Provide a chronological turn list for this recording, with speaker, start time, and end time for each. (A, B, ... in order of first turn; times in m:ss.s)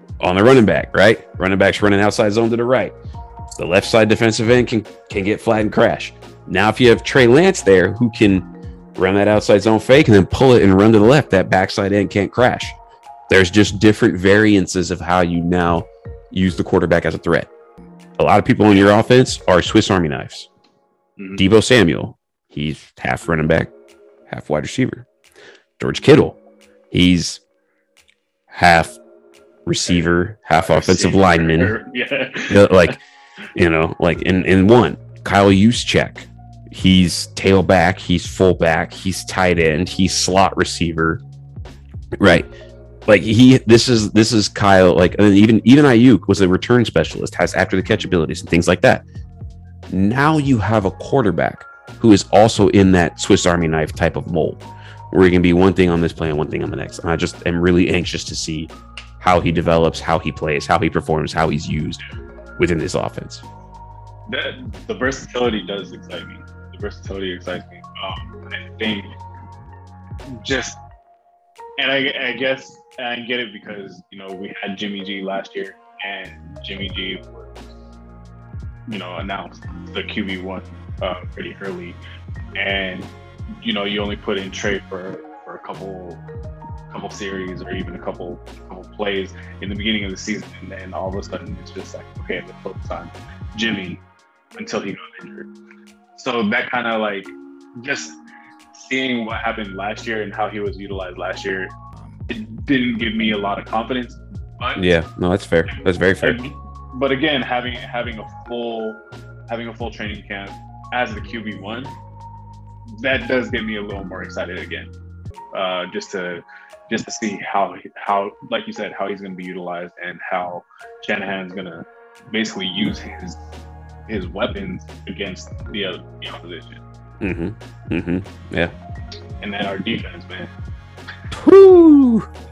0:00.2-0:02.9 A
0:03.6-0:12.8 A
0:13.3-0:17.5 A
0:18.2-0:20.5 A
0:21.2-0:21.4 B
0:21.4-0:23.7 A
0:24.3-0:25.1 A
0:25.8-0:26.4 A
0:26.9-0:27.4 A
0:28.5-0:29.0 A
0:29.6-0:31.7 A
0:29.9-0:32.9 B
0:32.5-0:33.0 A
0:33.5-0:41.2 A
0:42.2-0:42.5 A
0:43.1-0:49.0 A
0:49.9-0:54.6 A
0:55.1-1:02.0 A
1:02.6-1:03.4 A
1:04.3-1:09.1 B
1:10.3-1:10.8 B
1:11.8-1:17.6 B
1:18.9-1:22.0 B
1:22.6-1:26.2 B
1:26.9-1:34.0 B
1:34.6-1:35.5 B
1:36.1-1:38.2 B
1:38.7-1:41.7 B
1:42.3-1:44.9 B
1:44.8-1:46.4 A
1:46.2-1:51.9 B
1:52.9-1:54.9 B
1:55.5-2:03.4 B
2:04.1-2:06.8 B
2:07.2-2:08.7 A
2:09.4-2:10.5 B
2:11.3-2:12.3 A